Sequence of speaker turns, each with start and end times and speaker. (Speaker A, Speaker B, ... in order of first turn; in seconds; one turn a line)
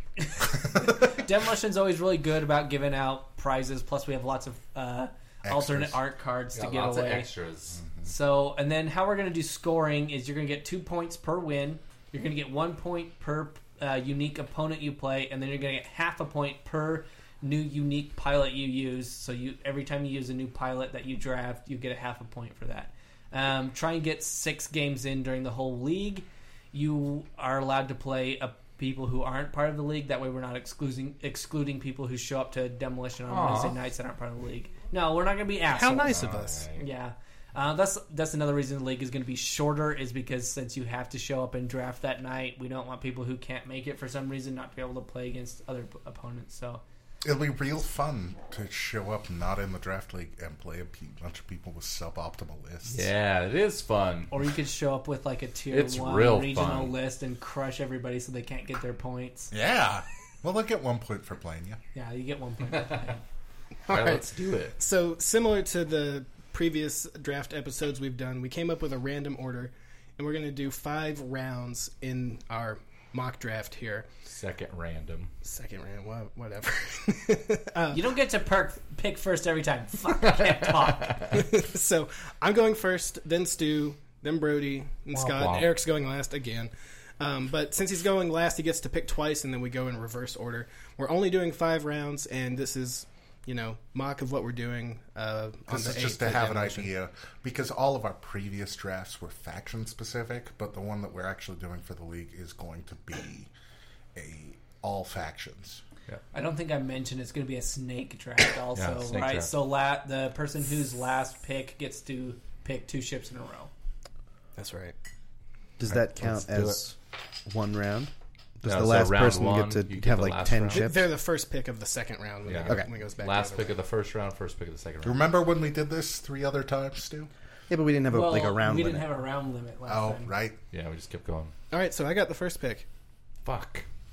Speaker A: 0.2-7.3
Speaker B: 5.4-6.0
Speaker C: 6.5-7.8
Speaker B: 7.7-8.1
Speaker A: 8.1-36.2
Speaker C: 33.3-33.8
Speaker D: 35.7-36.7
Speaker C: 36.1-36.8
Speaker A: 36.8-46.8
Speaker B: 47.2-53.1
Speaker C: 52.9-54.3
Speaker A: 54.3-59.5
Speaker C: 55.7-56.9
Speaker B: 59.5-61.8
Speaker A: 62.0-63.2
Speaker C: 63.9-64.8
Speaker D: 63.9-64.2
Speaker D: 64.8-74.1
Speaker C: 74.3-75.3
Speaker D: 75.4-78.1
Speaker A: 77.9-81.3
Speaker C: 80.4-81.3
Speaker D: 81.3-96.9
Speaker C: 85.1-85.7
Speaker B: 95.7-103.5
Speaker B: 104.2-105.8
Speaker A: 106.3-113.7
Speaker C: 108.8-109.5
Speaker D: 114.6-115.0
Speaker E: 115.8-121.1
Speaker C: 115.9-116.8
Speaker C: 118.6-120.9
Speaker D: 120.7-123.8
Speaker C: 122.5-125.2
Speaker B: 125.0-127.3
Speaker E: 127.7-129.1
Speaker A: 128.1-130.3
Speaker B: 129.9-130.6
Speaker C: 130.7-131.5
Speaker D: 131.7-132.9
Speaker C: 133.4-133.8